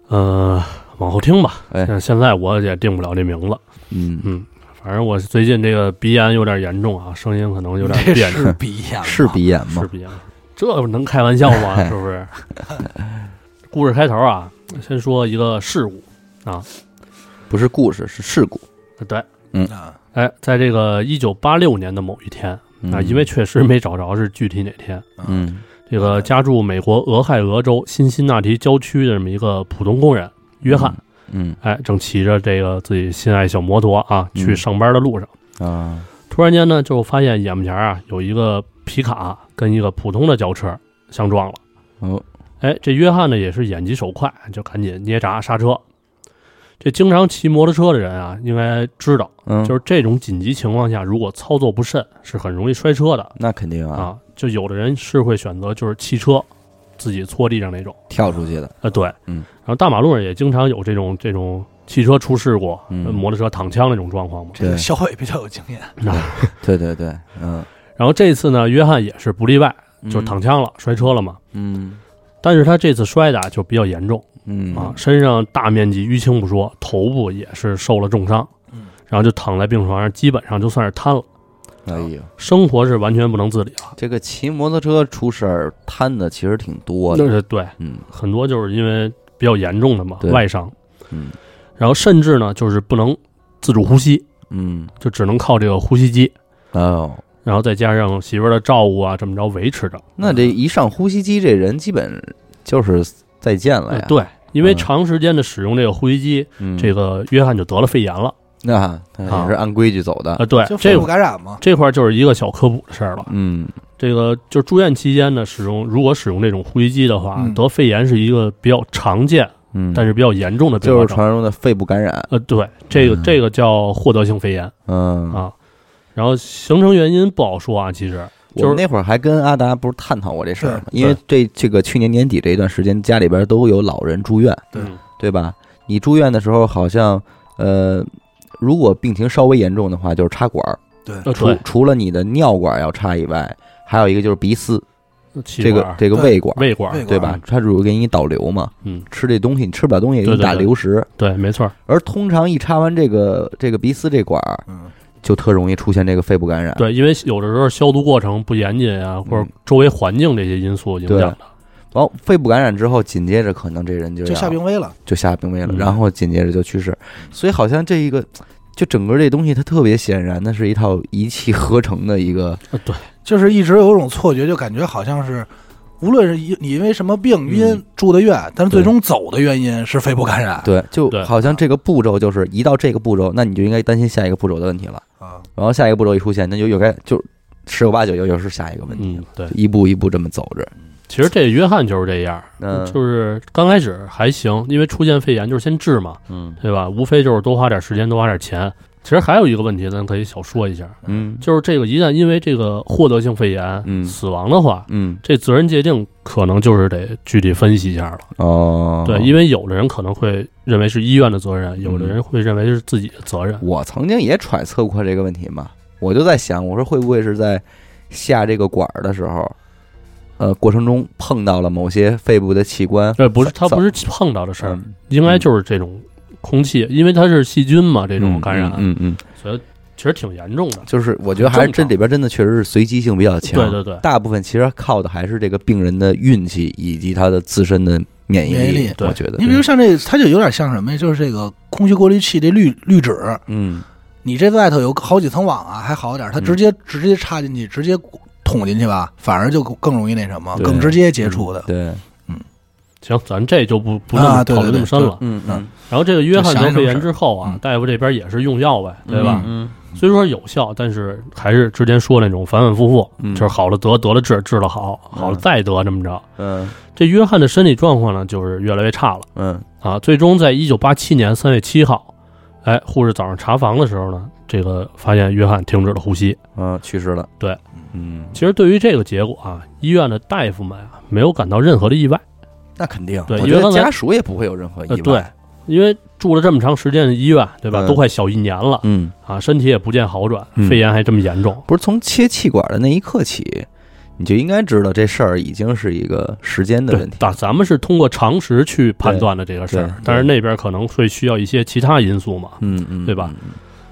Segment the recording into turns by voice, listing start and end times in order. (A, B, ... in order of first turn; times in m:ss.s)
0:00.1-0:03.6 A
0:03.9-0:04.3 B
0:04.2-0:08.5 A
0:07.8-0:09.4 C
0:09.0-0:09.9 B
0:09.7-0:12.3 A
0:13.7-0:16.7 A
0:17.5-0:18.6 B
0:19.0-0:19.3 A
0:19.7-0:20.0 C
0:20.2-0:25.1 A
0:22.8-0:23.3 B
0:25.2-0:25.5 C
0:25.2-0:25.6 B
0:25.9-0:31.0 A
0:30.6-0:31.6 B
0:31.6-0:35.3 A
0:34.4-0:34.6 B
0:35.6-0:36.1 B
0:36.3-0:41.6 A
0:42.6-0:45.8 A
0:46.8-0:53.3 A
0:49.5-0:49.8 B
0:53.4-0:54.1 B
0:54.0-0:58.0 A
0:58.1-0:59.5 B
0:58.8-1:04.6 A
1:02.9-1:03.2 B
1:04.6-1:06.0 C
1:04.6-1:04.9 B
1:06.0-1:06.5 A
1:06.1-1:07.7 B
1:08.0-1:11.4 A
1:10.0-1:10.4 B
1:11.5-1:12.0 B
1:12.4-1:18.5 A
1:14.5-1:15.0 B
1:19.1-1:21.2 A
1:21.8-1:22.3 B
1:22.4-1:24.0 A
1:24.0-1:28.0 B
1:27.1-1:30.7 A
1:31.1-1:31.4 B
1:31.8-1:34.3 A
1:34.5-1:34.9 B
1:35.0-1:36.4 A
1:36.7-1:37.2 B
1:37.4-1:40.1 A
1:40.2-1:44.9 B
1:40.2-1:40.5 C
1:43.9-1:48.4 A
1:46.6-1:46.9 B
1:48.6-1:51.1 B
1:49.3-1:49.5 A
1:50.4-1:51.1 A
1:50.6-1:51.6 C
1:51.6-1:53.3 A
1:53.2-1:53.8 B
1:54.0-2:01.2 A
1:57.4-1:57.6 C
1:59.7-2:00.1 B
2:00.8-2:02.3 B
2:02.3-2:04.7 A
2:02.9-2:03.3 B
2:04.9-2:05.4 B
2:06.2-2:08.8 A
2:08.6-2:14.7 B
2:10.6-2:10.9 C
2:15.2-2:24.8 B
2:21.2-2:21.6 A
2:25.4-2:27.0 A
2:25.6-2:31.1 B
2:26.1-2:27.4 C
2:30.2-2:31.7 A
2:31.9-2:34.6 B
2:35.2-2:36.9 B
2:36.8-2:41.4 A
2:41.1-2:41.4 B
2:41.9-2:52.6 B
2:44.2-2:45.0 C
2:45.6-2:46.0 A
2:52.7-2:53.1 A
2:53.2-2:55.5 C
2:56.0-3:00.7 C
3:00.6-3:05.0 B
3:05.6-3:10.7 B
3:09.0-3:09.5 A
3:11.1-3:28.3 A
3:12.6-3:13.0 B
3:16.3-3:16.6 B
3:21.0-3:21.4 B
3:23.8-3:24.2 B
3:24.9-3:25.2 B
3:28.4-3:29.3 B
3:29.0-3:33.6 A
3:31.8-3:32.2 B
3:33.6-3:39.6 B
3:40.4-3:43.9 B
3:43.2-3:51.9 A
3:44.6-3:45.4 B
3:48.2-3:49.2 B
3:50.9-3:59.6 B
3:53.4-3:54.0 A
3:58.5-4:03.4 C
4:03.5-4:03.9 B
4:04.2-4:11.7 C
4:10.6-4:11.0 B
4:11.6-4:12.0 B
4:13.0-4:15.2 A
4:14.1-4:15.7 C
4:15.2-4:15.7 B
4:15.9-4:26.3 A
4:16.3-4:17.1 C
4:19.1-4:19.8 B
4:19.1-4:19.5 C
4:23.2-4:23.5 B
4:25.1-4:25.4 B
4:26.4-4:26.8 B
4:26.9-4:29.3 A
4:29.4-4:29.7 B
4:29.8-4:32.1 A
4:32.6-4:36.4 A
4:36.6-4:37.3 B
4:37.9-4:38.4 B
4:38.3-4:42.2 A
4:42.8-4:45.3 B
4:43.3-4:43.9 A
4:44.9-4:51.6 A
4:47.7-4:48.0 B
4:48.8-4:49.1 B
4:50.6-4:50.8 B
4:51.7-4:57.4 B
4:56.9-5:03.3 A
4:59.0-5:00.3 B
5:02.6-5:03.6 B